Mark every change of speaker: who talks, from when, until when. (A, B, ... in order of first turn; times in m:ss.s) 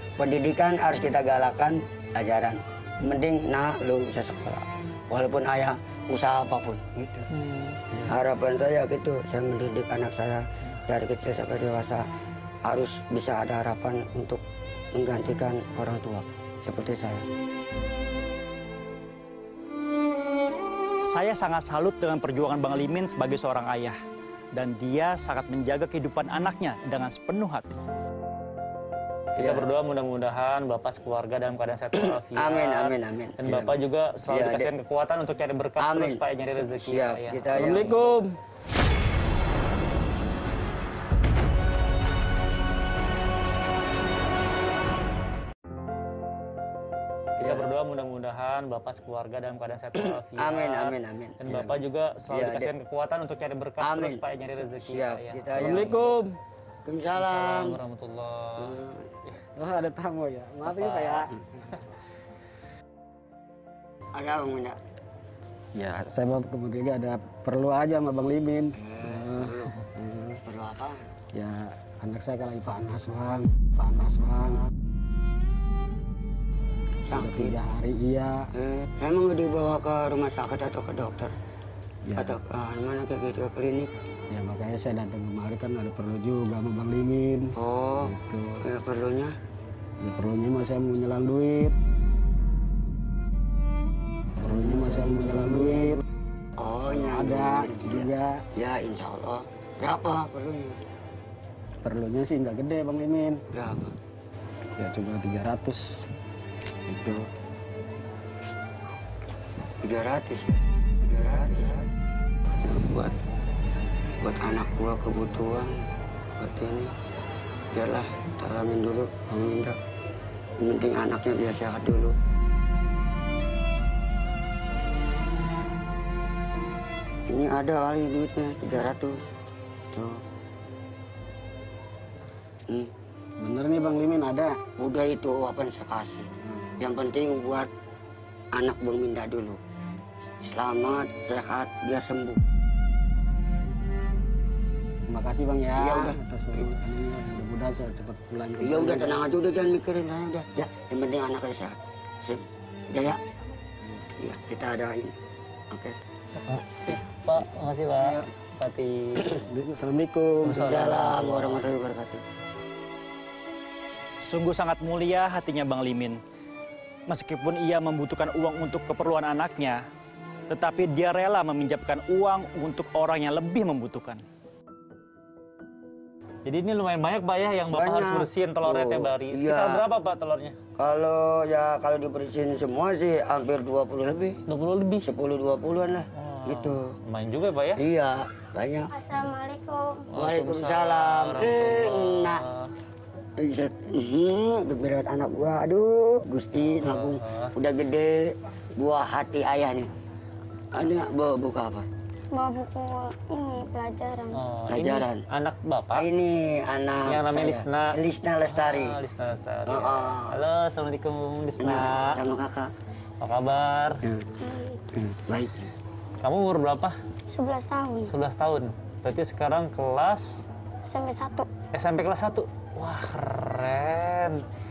0:00.2-0:07.3 A
0:07.3-0:07.8 B
0:08.0-0:12.1 A
0:12.6-0:17.3 A
0:21.0-0:23.9 C
0:24.5-0:27.6 C
0:29.4-0:29.6 A
0:29.4-0:38.1 B
0:31.9-0:34.7 A
0:35.8-0:38.1 A
0:37.5-0:38.3 D
0:47.4-0:47.7 A
0:47.4-0:55.8 B
0:49.9-0:52.7 A
0:53.8-0:56.1 A
0:55.5-0:56.3 D
0:56.8-0:57.8 A
0:57.2-0:59.4 B
0:58.6-0:59.0 A
0:59.6-1:01.3 D
1:00.6-1:01.3 B
1:04.1-1:04.8 A
1:05.7-1:10.4 D
1:08.8-1:09.7 A
1:10.4-1:11.1 A
1:11.3-1:14.6 D
1:17.0-1:17.6 A
1:17.1-1:18.5 D
1:18.5-1:21.3 A
1:22.0-1:22.3 D
1:22.2-1:23.9 A
1:24.3-1:28.6 D
1:27.6-1:29.3 A
1:30.0-1:31.7 D
1:34.4-1:36.0 D
1:36.6-1:40.8 A
1:37.0-1:38.4 D
1:41.8-1:43.4 D
1:43.5-1:44.0 A
1:44.8-1:46.1 D
1:46.9-1:47.3 D
1:49.8-1:51.9 A
1:52.6-1:53.2 A
1:54.2-1:56.9 A
1:57.7-1:59.8 A
2:00.6-2:02.2 A
2:07.3-2:09.3 A
2:09.9-2:10.2 A
2:13.4-2:14.6 D
2:14.8-2:17.7 A
2:18.5-2:19.6 A
2:20.4-2:22.4 A
2:25.1-2:29.2 D
2:25.8-2:26.2 A
2:28.6-2:33.2 A
2:34.2-2:35.2 A
2:35.7-2:36.0 A
2:36.4-2:39.4 B
2:38.0-2:38.2 D
2:39.3-2:40.8 D
2:40.4-2:41.6 B
2:40.5-2:42.2 A
2:44.2-2:46.2 C
2:47.1-2:49.8 C
2:50.5-2:54.2 C
2:56.4-3:00.6 B
2:57.7-2:59.8 A
3:00.8-3:04.4 A
3:04.5-3:05.1 B
3:05.0-3:06.9 A
3:06.1-3:07.8 B
3:07.8-3:08.9 A
3:08.9-3:10.1 E
3:10.1-3:12.7 B
3:10.1-3:12.4 A
3:13.4-3:19.9 A
3:16.6-3:17.5 B
3:20.7-3:21.9 A
3:22.3-3:24.4 E
3:24.3-3:26.1 B
3:24.7-3:25.2 A
3:25.9-3:29.0 A
3:27.0-3:32.2 B
3:29.7-3:30.4 A
3:31.6-3:32.7 A
3:33.2-3:34.0 B
3:34.4-3:34.8 E
3:34.9-3:35.7 A
3:36.2-3:36.9 B
3:37.3-3:38.1 E
3:38.1-3:40.4 B
3:40.8-3:41.5 E
3:41.7-3:44.4 B